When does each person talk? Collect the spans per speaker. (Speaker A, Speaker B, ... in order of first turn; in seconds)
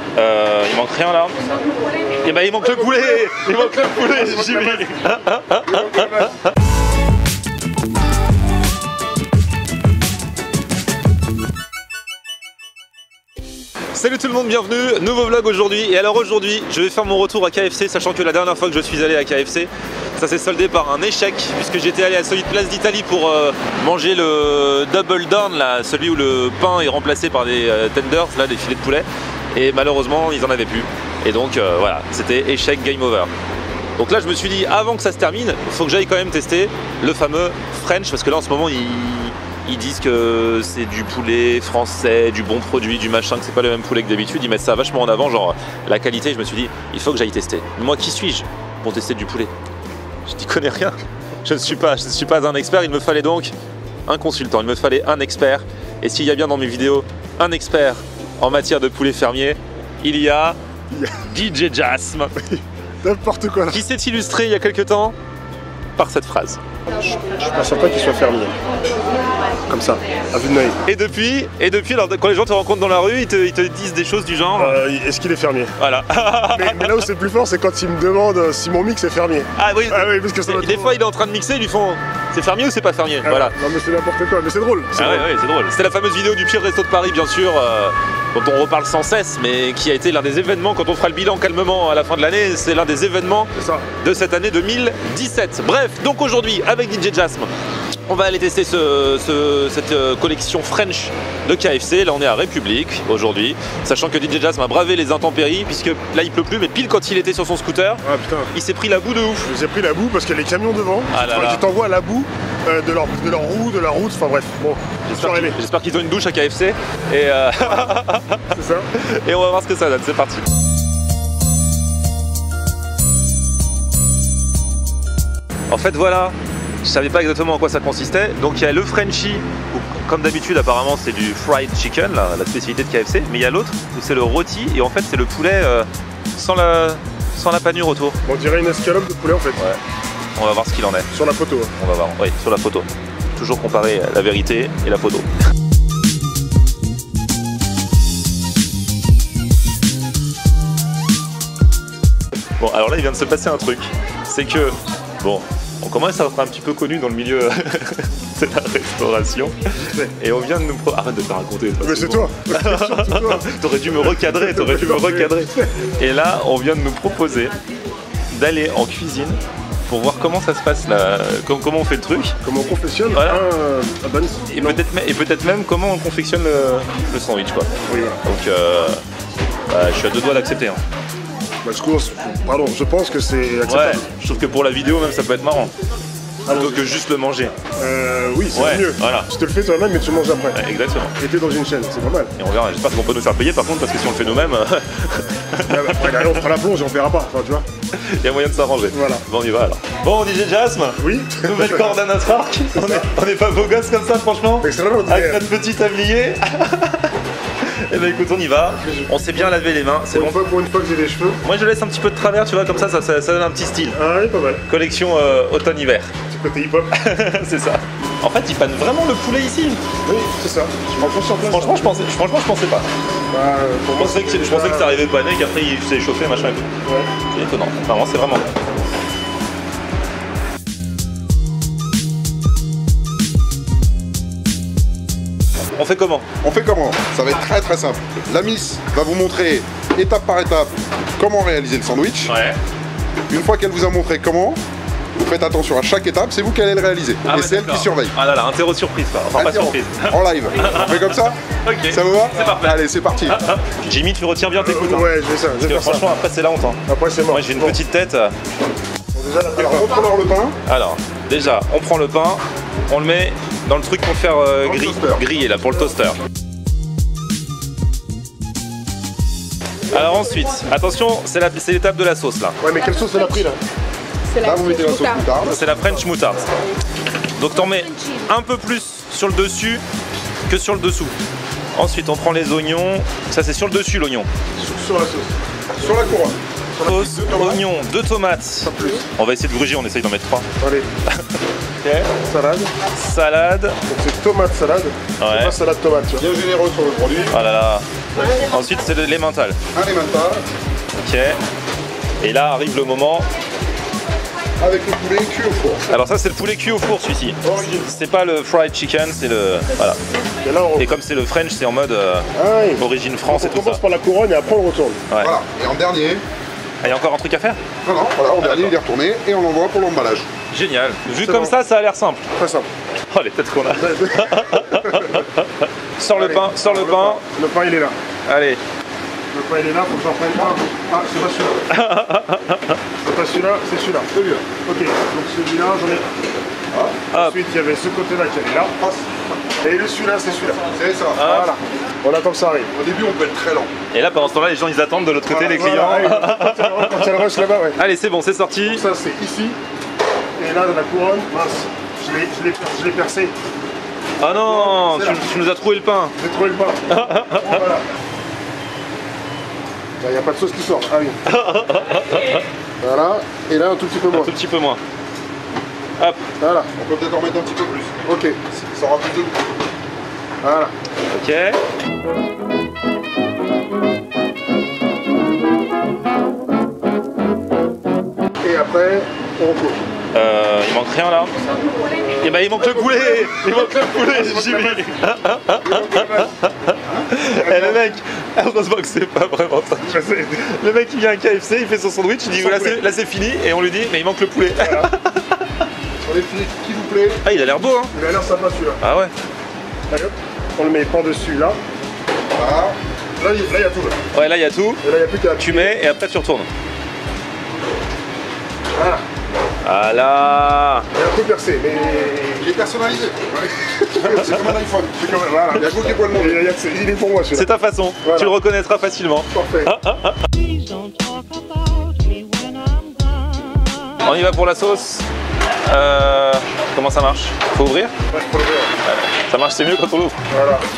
Speaker A: 0.1-1.4, 2.2-6.5, 13.9-33.3, 34.0-49.5, 50.3-53.5, 54.1-60.6, 61.3-62.6, 63.7-65.2, 66.0-66.6, 70.8-74.8, 75.8-77.0, 79.6-83.5, 85.0-93.5, 94.0-97.5, 98.1-108.0, 108.5-109.5, 111.1-111.6, 115.1-118.4, 119.0-120.5, 125.7-138.2, 140.4-141.1, 141.8-145.3, 152.6-159.6, 160.2-167.5, 168.3-172.3, 173.1-173.4, 174.5-177.7, 178.2-179.0, 179.7-180.8, 183.6-185.7, 186.4-187.5, 188.5-189.3, 190.5-191.1, 192.4-196.4, 197.9-210.4, 211.4-214.0, 214.7-216.1, 216.9-219.8, 221.0-222.9, 223.9-226.7, 227.3-228.5, 235.7-236.2, 242.3-242.6, 247.2-258.3, 260.7-266.2, 269.9-272.6, 275.4-276.5, 277.4-279.8, 280.5-281.1, 281.8-284.3, 286.8-290.5, 291.8-292.1, 292.9-293.8, 295.2-295.6, 297.3-299.6, 301.0-301.4, 302.2-303.3, 305.9-310.0, 310.8-313.8, 316.8-317.6, 318.4-318.7, 320.5-322.2, 323.1-327.2, 328.3-328.6, 331.7-332.8, 334.1-334.4, 337.1-337.4, 341.2-341.5, 343.9-347.2, 347.8-348.8, 354.2-356.1, 356.9-357.6, 361.3-362.4, 364.1-364.8, 371.1-371.6, 380.1-381.3, 382.2-395.4, 397.2-397.9, 398.8-399.1, 404.1-404.8, 405.4-406.5, 409.6-410.9, 417.3-420.2, 424.0-425.1, 425.7-427.9, 428.9-430.2
Speaker B: 2.6-4.9, 5.6-6.3, 60.9-61.3, 63.0-63.8, 67.2-68.5, 69.7-70.8, 74.5-75.7, 76.5-81.0, 83.2-85.3, 93.6-93.9, 108.0-108.5, 109.4-115.6, 117.6-118.9, 138.2-139.6, 141.1-141.7, 159.7-160.1, 161.8-165.7, 172.4-174.8, 177.9-178.2, 181.6-184.1, 186.4-186.9, 187.7-190.6, 191.1-192.3, 195.7-197.7, 198.9-199.2, 201.0-202.0, 202.7-203.0, 204.6-205.4, 208.8-209.6, 210.1-211.4, 213.9-214.6, 216.3-216.9, 220.0-222.0, 223.3-225.0, 226.8-227.1, 254.6-256.1, 256.9-257.8, 259.1-260.1, 272.6-273.6, 284.6-285.4, 286.8-287.1, 288.6-289.1, 290.6-290.9, 292.2-292.7, 293.9-296.2, 310.4-310.9, 312.4-315.0, 321.1-321.6, 322.4-322.7, 323.7-325.2, 326.1-328.0, 329.3-331.7, 333.0-336.1, 337.1-338.7, 339.6-342.7, 345.3-347.8, 348.6-349.6, 350.4-353.3, 354.4-355.2, 356.2-357.8, 360.0-361.2, 362.8-364.3, 366.4-366.7, 368.1-368.4, 370.4-370.7, 378.4-379.8, 382.6-384.8, 385.7-386.0, 387.4-387.7, 389.8-390.5, 392.3-392.8, 394.5-394.9, 397.9-398.8, 399.9-401.6, 403.2-404.0, 404.8-405.8, 408.8-409.0, 410.9-412.6, 413.7-417.5, 418.0-418.4, 419.3-419.7
Speaker C: 236.4-242.3, 243.3-244.6, 245.1-248.1, 249.3-251.4, 251.9-253.4, 259.6-260.6, 264.8-265.1, 274.4-275.6, 285.8-286.4, 286.9-287.6, 296.2-297.5, 299.7-300.4, 304.6-305.9, 307.4-307.9, 315.2-316.2, 317.8-320.3, 336.7-337.0, 338.8-339.1, 340.7-341.2, 342.7-343.7, 366.8-369.4, 385.7-386.2, 396.0-397.2, 402.3-402.8, 412.4-416.4, 428.1-428.7, 430.3-430.6